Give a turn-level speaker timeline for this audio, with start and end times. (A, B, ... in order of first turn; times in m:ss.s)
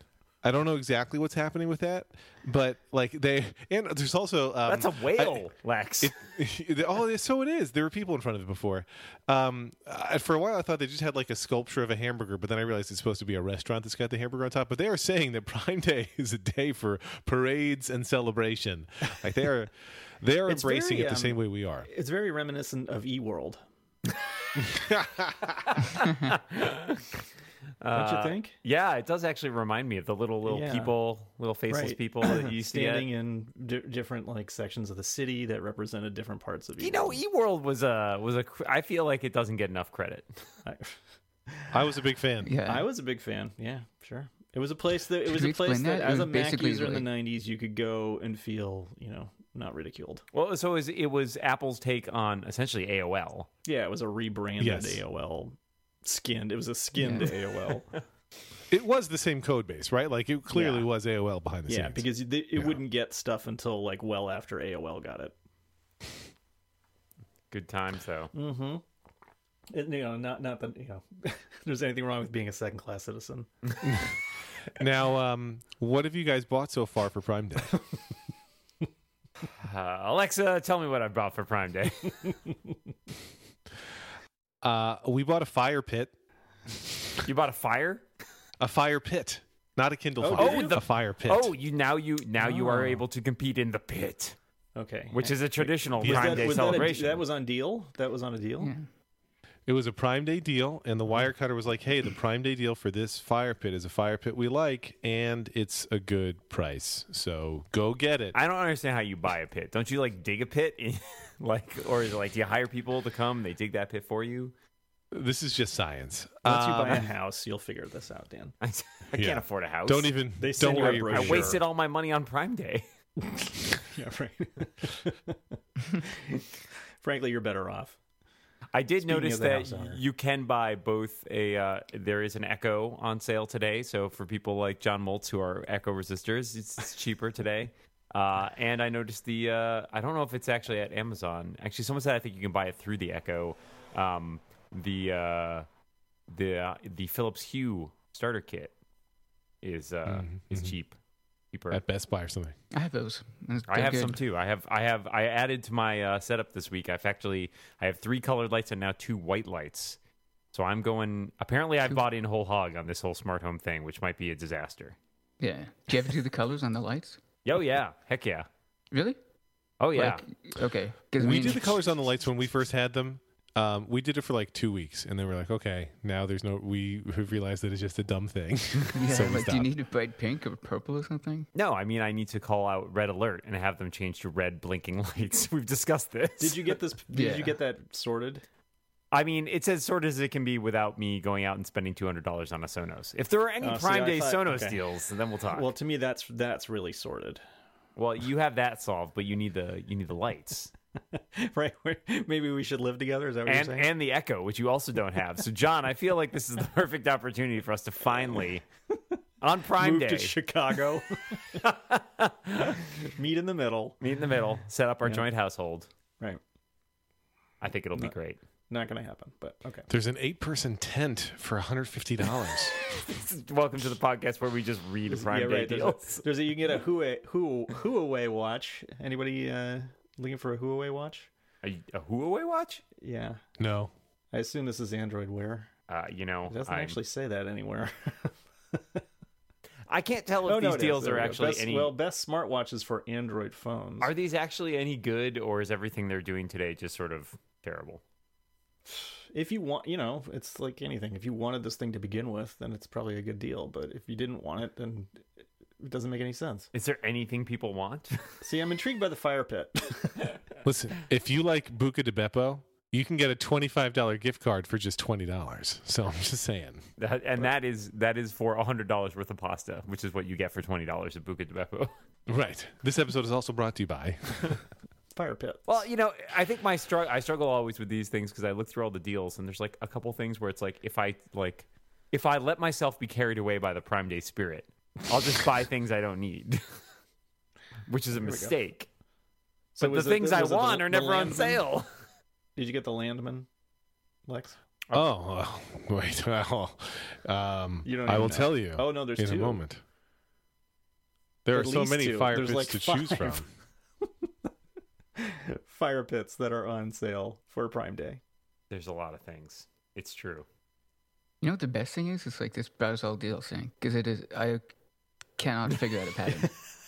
0:00.4-0:05.4 A
0:04.6-0:06.2 B
0:06.0-0:21.9 A
0:20.5-0:23.6 C
0:24.6-0:25.8 A
0:25.8-0:27.1 B
0:27.8-0:33.1 B
0:27.9-0:28.5 C
0:30.4-0:30.9 C
0:31.7-0:37.2 C
0:36.8-0:40.3 B
0:40.6-0:41.0 C
0:41.7-0:42.5 A
0:42.4-0:42.9 D
0:42.6-0:50.2 C
0:45.2-0:47.0 D
0:50.3-0:53.5 B
0:53.6-0:58.0 C
0:54.6-0:55.0 A
0:57.0-0:57.3 D
0:58.7-1:02.0 A
1:00.5-1:00.9 C
1:01.7-1:05.3 C
1:07.5-1:08.3 B
1:08.3-1:08.8 C
1:09.7-1:13.5 C
1:13.8-1:14.2 A
1:14.7-1:17.7 A
1:19.6-1:22.2 B
1:24.6-1:26.1 A
1:27.2-1:28.0 B
1:28.6-1:31.5 A
1:30.2-1:30.8 C
1:30.4-1:34.4 B
1:32.4-1:33.0 C
1:34.8-1:38.7 C
1:35.1-1:37.2 B
1:36.0-1:36.8 A
1:38.6-1:38.9 D
1:39.7-1:48.4 A
1:48.3-1:54.5 B
1:55.1-1:57.1 A
1:56.4-1:58.5 C
1:58.6-2:00.1 B
1:59.1-2:01.6 A
2:00.4-2:01.6 C
2:00.7-2:02.8 B
2:03.8-2:05.4 C
2:05.9-2:06.4 C
2:07.0-2:08.0 C
2:08.7-2:25.7 B
2:09.0-2:10.0 C
2:26.3-2:28.7 B
2:29.6-2:31.0 B
2:30.1-2:30.7 A
2:31.5-2:31.8 B
2:31.7-2:32.5 A
2:32.7-2:34.2 D
2:33.7-2:40.0 B
2:40.5-2:45.0 B
2:45.4-2:47.2 D
2:47.4-2:48.5 B
2:48.9-2:49.2 D
2:49.8-2:50.2 B
2:49.9-2:51.8 D
2:51.2-2:59.7 A
2:58.9-3:01.5 D
3:01.5-3:06.8 B
3:06.4-3:08.4 C
3:07.1-3:07.6 D
3:09.1-3:15.7 B
3:13.6-3:14.8 C
3:15.5-3:17.4 C
3:18.0-3:20.7 B
3:21.1-3:23.9 C
3:23.4-3:28.6 B
3:29.4-3:30.3 B
3:29.8-3:31.6 C
3:31.6-3:32.8 B
3:32.7-3:34.0 C
3:34.0-3:35.9 B
3:37.6-3:38.4 B
3:38.7-3:39.9 C
3:39.9-3:42.8 A
3:42.8-3:46.2 B
3:45.1-3:51.3 C
3:51.6-3:52.8 B
3:53.0-3:53.4 C
3:53.6-3:53.9 A
3:54.3-3:55.7 C
3:55.9-3:57.0 B
3:56.5-3:59.0 C
3:59.9-4:01.9 B
4:00.4-4:04.1 C
4:04.0-4:08.0 B
4:08.9-4:15.3 C
4:15.8-4:16.7 C
4:16.7-4:18.2 B
4:18.4-4:20.4 C
4:20.6-4:26.8 A
4:27.0-4:31.9 B
4:32.3-4:34.6 A
4:35.1-4:35.6 C
4:35.7-4:46.8 B
4:47.9-4:48.9 B
4:48.1-4:48.5 C
4:49.7-4:51.6 C
4:49.8-4:51.9 B
4:52.6-4:53.5 C
4:54.3-4:54.6 C
4:54.9-4:59.8 A
4:57.8-4:59.6 C
5:01.4-5:03.4 A
5:01.5-5:03.4 C
5:05.2-5:08.2 C
5:08.7-5:10.4 B
5:11.4-5:14.7 D
5:15.4-5:16.5 D